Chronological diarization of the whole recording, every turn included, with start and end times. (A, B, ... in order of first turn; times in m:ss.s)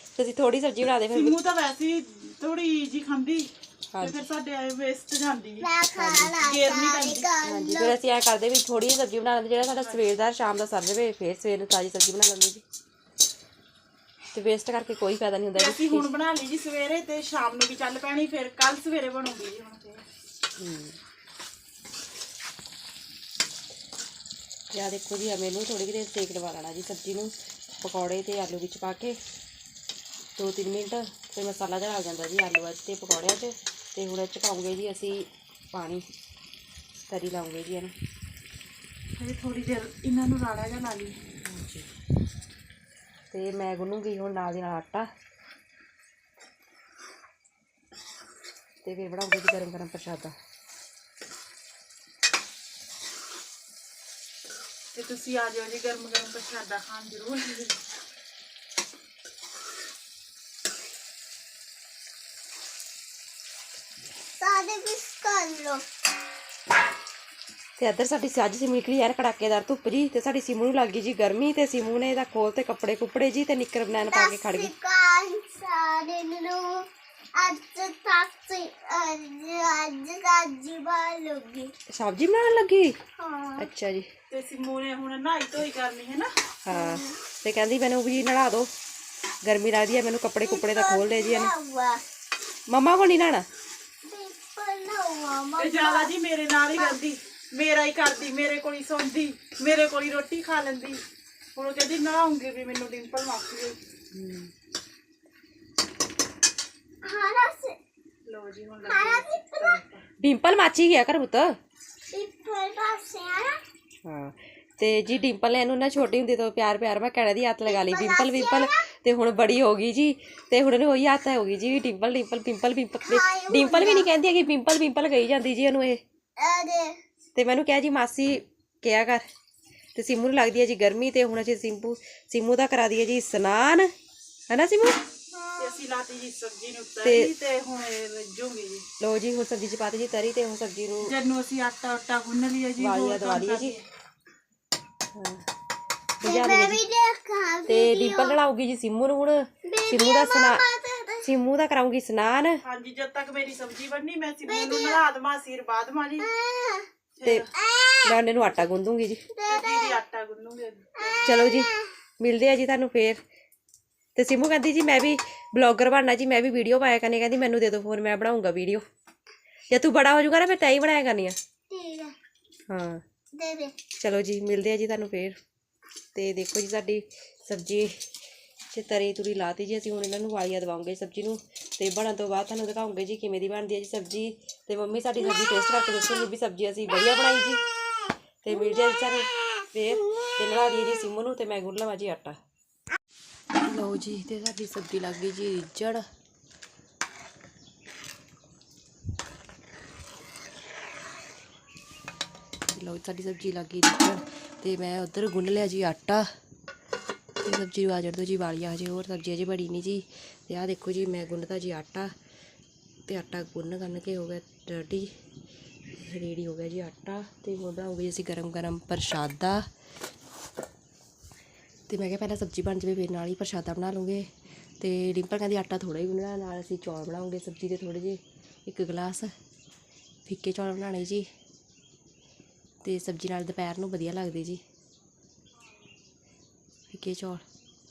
0:00.2-0:01.4 A
0:01.1-0:05.7 B
0:03.9-0:04.2 A
0:05.6-0:08.0 C
0:06.0-0:06.4 A
0:06.3-0:07.3 B
0:07.4-0:12.6 A
0:14.3-0:16.1 A
0:15.5-0:20.0 B
0:20.6-0:21.0 A
0:24.7-0:29.2 A
0:30.4-0:36.1 A
0:37.1-0:37.9 A
0:39.2-0:41.2 B
0:41.4-0:41.9 A
0:43.3-0:45.1 A
0:48.8-0:50.4 A
0:54.9-0:57.8 B
1:04.4-1:05.8 C
1:07.8-1:14.7 A
1:14.0-1:21.7 C
1:21.9-1:23.0 A
1:23.2-1:23.7 C
1:23.6-1:24.1 A
1:24.3-1:26.4 B
1:26.6-1:28.7 A
1:26.7-1:27.1 C
1:29.4-1:31.5 A
1:30.4-1:32.0 C
1:32.7-1:33.5 A
1:34.0-1:36.2 C
1:35.6-1:41.0 B
1:41.6-1:43.8 B
1:44.1-1:44.5 A
1:47.0-1:47.8 C
1:48.2-1:50.1 B
1:48.8-1:49.8 C
1:50.2-1:51.6 A
1:52.1-1:53.6 C
1:54.0-2:06.0 A
1:57.6-1:58.8 C
2:03.0-2:04.1 C
2:06.4-2:07.0 C
2:07.4-2:09.2 A
2:10.0-2:13.9 A
2:14.5-2:15.0 A
2:15.3-2:15.8 C
2:15.6-2:18.9 B
2:17.0-2:17.3 A
2:19.0-2:21.1 A
2:21.0-2:23.8 B
2:22.8-2:23.8 A
2:25.1-2:25.5 A
2:26.2-2:26.8 A
2:26.2-2:28.4 C
2:27.7-2:30.7 A
2:29.7-2:31.3 C
2:31.2-2:32.6 A
2:32.6-2:36.3 B
2:34.5-2:35.0 C
2:36.2-2:36.9 C
2:37.2-2:37.5 B
2:37.2-2:37.5 A
2:37.6-2:38.1 C
2:38.0-2:39.3 A
2:39.3-2:40.0 C
2:39.5-2:41.3 B
2:41.0-2:41.9 C
2:41.2-2:43.2 A
2:44.2-2:48.8 A
2:49.7-2:51.4 A
2:51.7-2:52.2 C
2:52.7-2:53.0 A
2:53.3-2:53.8 C
2:53.9-2:55.4 A
2:56.2-2:58.1 A
2:58.7-3:07.6 A
3:08.4-3:12.4 A
3:13.6-3:16.0 A
3:22.7-3:26.3 A
3:27.4-3:32.2 A
3:33.1-3:35.1 A
3:36.0-3:39.7 A
3:41.9-3:44.3 A
3:44.8-3:49.3 A
3:50.3-3:51.3 A
3:52.8-3:54.6 A
3:56.9-3:57.4 A